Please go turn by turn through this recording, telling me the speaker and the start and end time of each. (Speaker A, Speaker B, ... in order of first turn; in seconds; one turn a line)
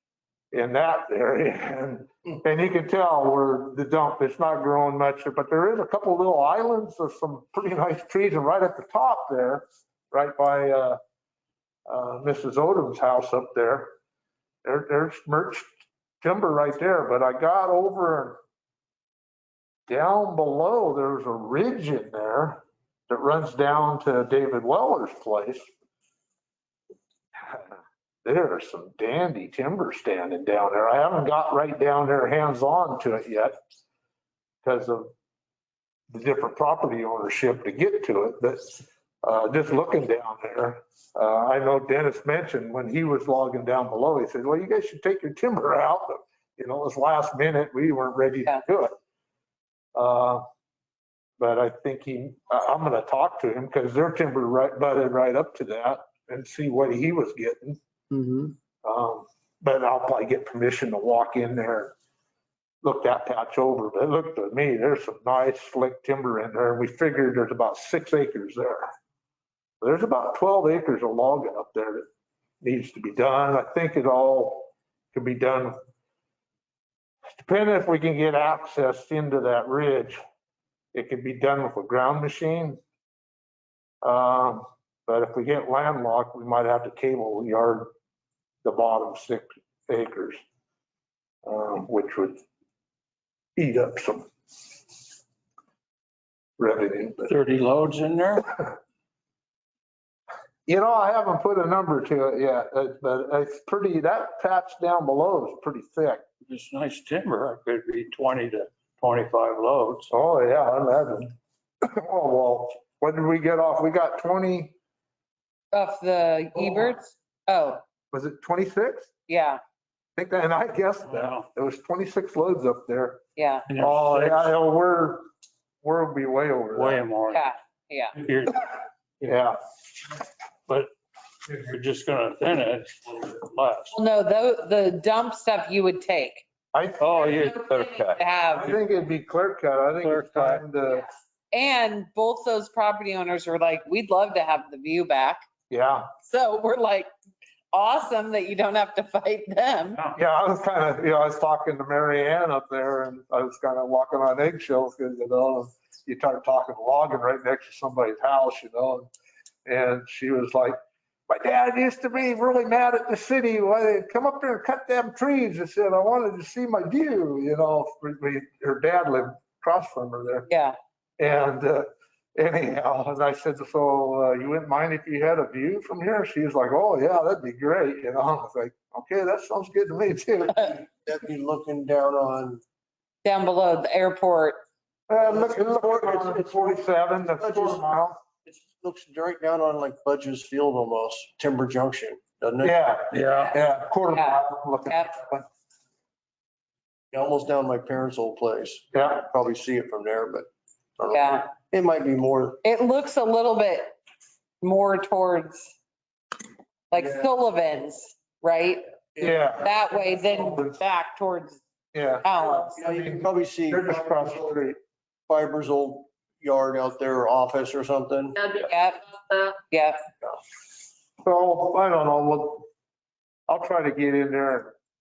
Speaker A: 0.5-11.0
Speaker A: 11.9-13.9
Speaker A: 14.6-15.7
Speaker A: 16.2-18.4
Speaker A: 19.9-25.7
Speaker A: 28.2-33.5
Speaker A: 34.6-35.1
Speaker A: 36.1-48.9
Speaker A: 49.9-50.5
Speaker A: 51.4-57.8
Speaker B: 58.1-58.5
Speaker A: 58.8-61.9
Speaker A: 62.8-68.9
Speaker A: 69.8-72.0
Speaker A: 72.6-75.8
Speaker A: 77.3-80.2
Speaker A: 80.9-82.8
Speaker A: 84.0-87.9
Speaker A: 88.6-90.4
Speaker A: 91.4-92.4
Speaker A: 93.5-94.3
Speaker A: 96.6-97.3
Speaker C: 97.2-98.6
Speaker A: 100.7-106.2
Speaker C: 106.5-110.1
Speaker A: 110.1-114.7
Speaker D: 115.7-117.8
Speaker A: 118.1-119.1
Speaker D: 119.3-119.6
Speaker A: 120.2-123.2
Speaker C: 121.1-121.5
Speaker D: 123.3-123.7
Speaker C: 123.7-124.5
Speaker A: 123.8-125.3
Speaker A: 125.8-127.0
Speaker C: 126.7-127.4
Speaker D: 127.3-128.2
Speaker C: 128.2-128.7
Speaker A: 129.2-129.6
Speaker C: 131.4-133.9
Speaker D: 133.9-136.4
Speaker A: 136.7-137.3
Speaker C: 137.0-138.2
Speaker D: 137.3-138.8
Speaker A: 138.5-141.1
Speaker C: 140.0-140.6
Speaker D: 141.5-145.4
Speaker A: 145.7-146.1
Speaker D: 146.2-147.1
Speaker D: 147.7-150.0
Speaker A: 150.1-159.1
Speaker A: 159.7-160.8
Speaker A: 161.3-170.5
Speaker D: 170.5-170.8
Speaker A: 171.2-180.7
Speaker B: 180.6-182.6
Speaker D: 183.2-184.6
Speaker A: 185.1-188.2
Speaker B: 185.2-186.7
Speaker B: 187.4-187.8
Speaker B: 188.4-192.8
Speaker A: 192.6-195.4
Speaker C: 193.1-193.5
Speaker D: 194.1-195.2
Speaker B: 197.1-202.6
Speaker A: 198.9-199.2
Speaker D: 201.1-201.5
Speaker D: 202.6-203.9
Speaker D: 204.6-205.7
Speaker D: 206.9-211.6
Speaker B: 209.2-209.5
Speaker A: 209.2-209.8
Speaker A: 211.9-214.8
Speaker D: 212.2-212.8
Speaker B: 212.7-214.5
Speaker B: 215.3-218.4
Speaker D: 218.4-220.0
Speaker A: 221.2-222.7
Speaker A: 223.5-224.7